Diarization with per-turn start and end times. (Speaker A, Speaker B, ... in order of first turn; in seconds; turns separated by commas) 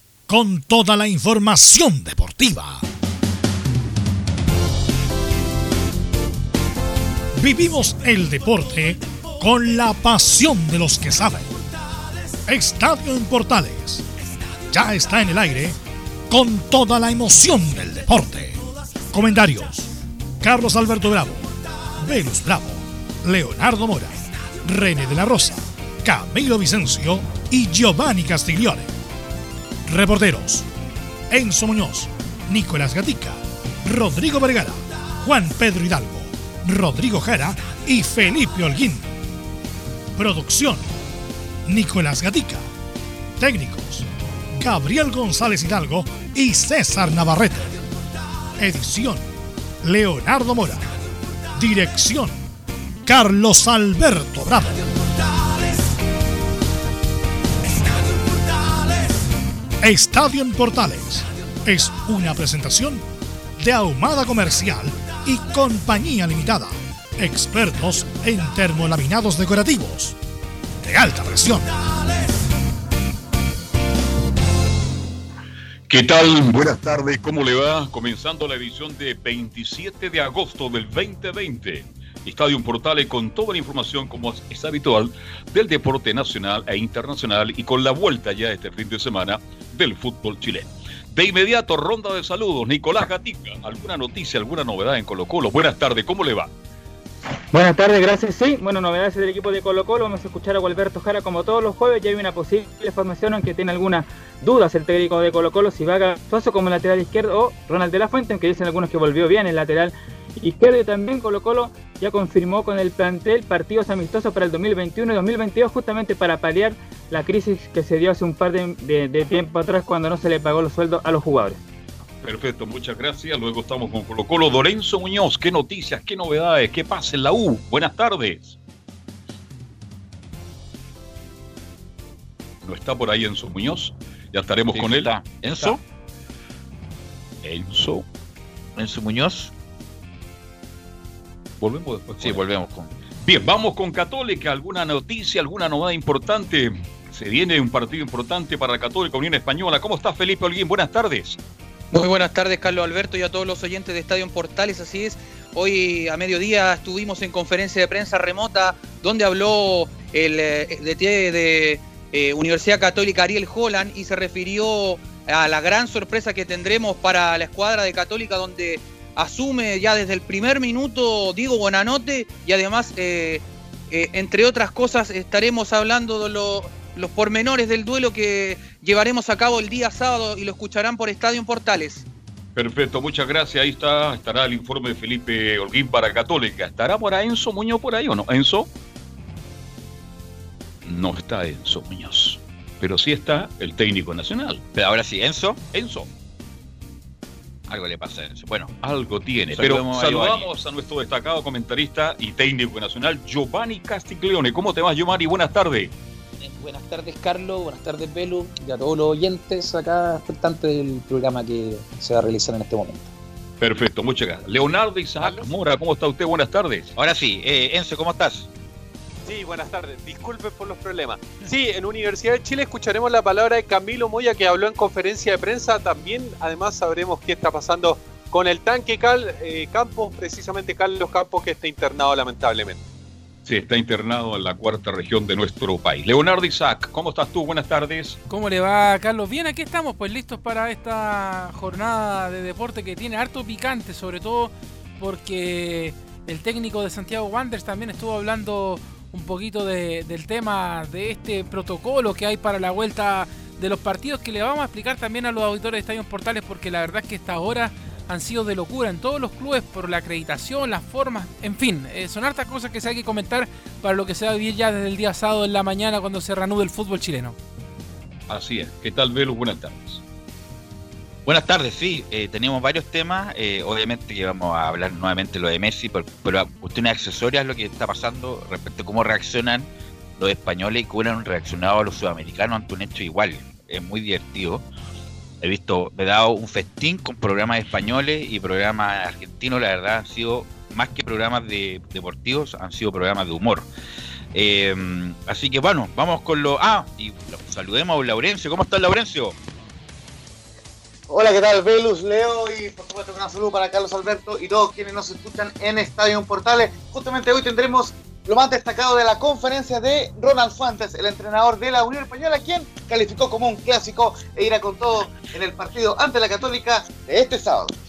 Speaker A: 0.3-2.8, Speaker A: 7.4-11.5, Speaker A: 12.5-14.0, Speaker A: 14.7-15.8, Speaker A: 16.3-18.6, Speaker A: 19.1-19.9, Speaker A: 20.4-21.5, Speaker A: 22.0-28.9, Speaker A: 29.9-30.7, Speaker A: 31.3-39.1, Speaker A: 40.2-40.9, Speaker A: 41.7-42.7, Speaker A: 43.4-44.1, Speaker A: 44.6-47.8, Speaker A: 48.6-49.3, Speaker A: 49.8-51.0, Speaker A: 51.6-52.4, Speaker A: 53.0-54.9, Speaker A: 59.8-63.0, Speaker A: 63.6-70.2, Speaker A: 70.8-71.7, Speaker B: 75.9-96.5, Speaker C: 97.5-121.6, Speaker B: 122.2-128.6, Speaker B: 132.6-135.1, Speaker D: 134.7-135.8, Speaker B: 137.4-138.1, Speaker D: 138.8-139.5, Speaker B: 141.6-142.4, Speaker D: 142.2-142.9, Speaker B: 143.2-151.4, Speaker E: 151.9-182.1, Speaker B: 182.6-188.7, Speaker B: 190.8-194.7, Speaker D: 194.8-195.6, Speaker B: 195.7-196.1, Speaker D: 197.7-198.7, Speaker B: 198.8-205.9, Speaker D: 199.5-200.5, Speaker F: 206.4-213.1, Speaker B: 213.6-216.9, Speaker D: 216.9-218.5, Speaker G: 219.2-232.8, Speaker B: 233.5-238.2, Speaker H: 238.3-267.4, Speaker B: 268.3-270.0, Speaker D: 271.2-284.6, Speaker D: 285.4-293.7, Speaker D: 294.3-299.4, Speaker I: 301.1-317.7